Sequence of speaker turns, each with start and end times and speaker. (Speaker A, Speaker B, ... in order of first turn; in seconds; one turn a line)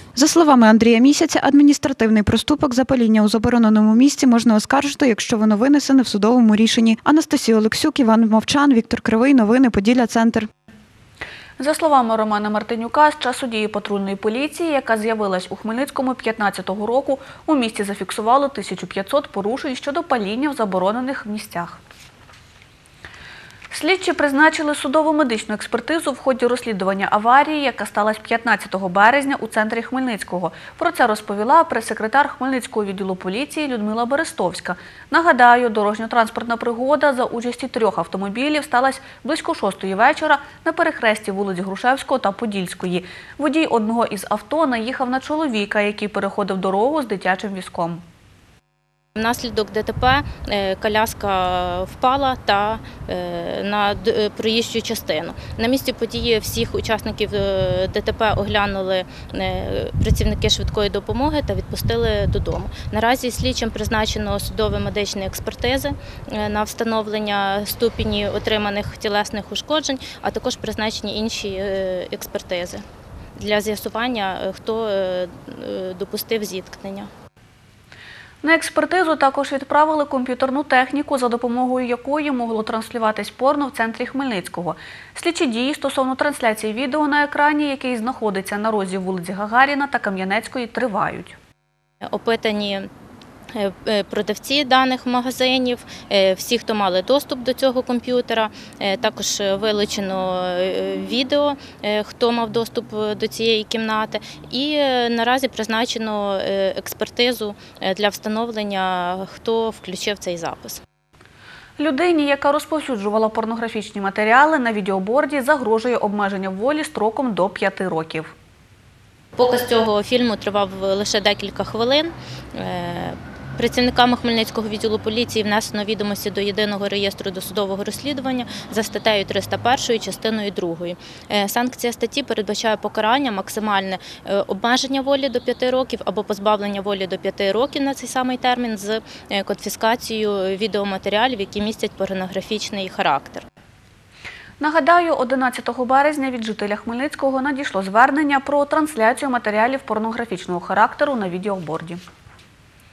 Speaker A: 0.2-10.5
Speaker B: 11.6-21.8
Speaker B: 23.7-48.0
Speaker C: 49.2-72.8
Speaker C: 73.4-77.1
Speaker B: 78.4-91.3
Speaker C: 92.1-92.9
Speaker C: 93.5-110.8
Speaker B: 111.8-118.3
Speaker C: 119.4-143.4
Speaker B: 144.6-152.0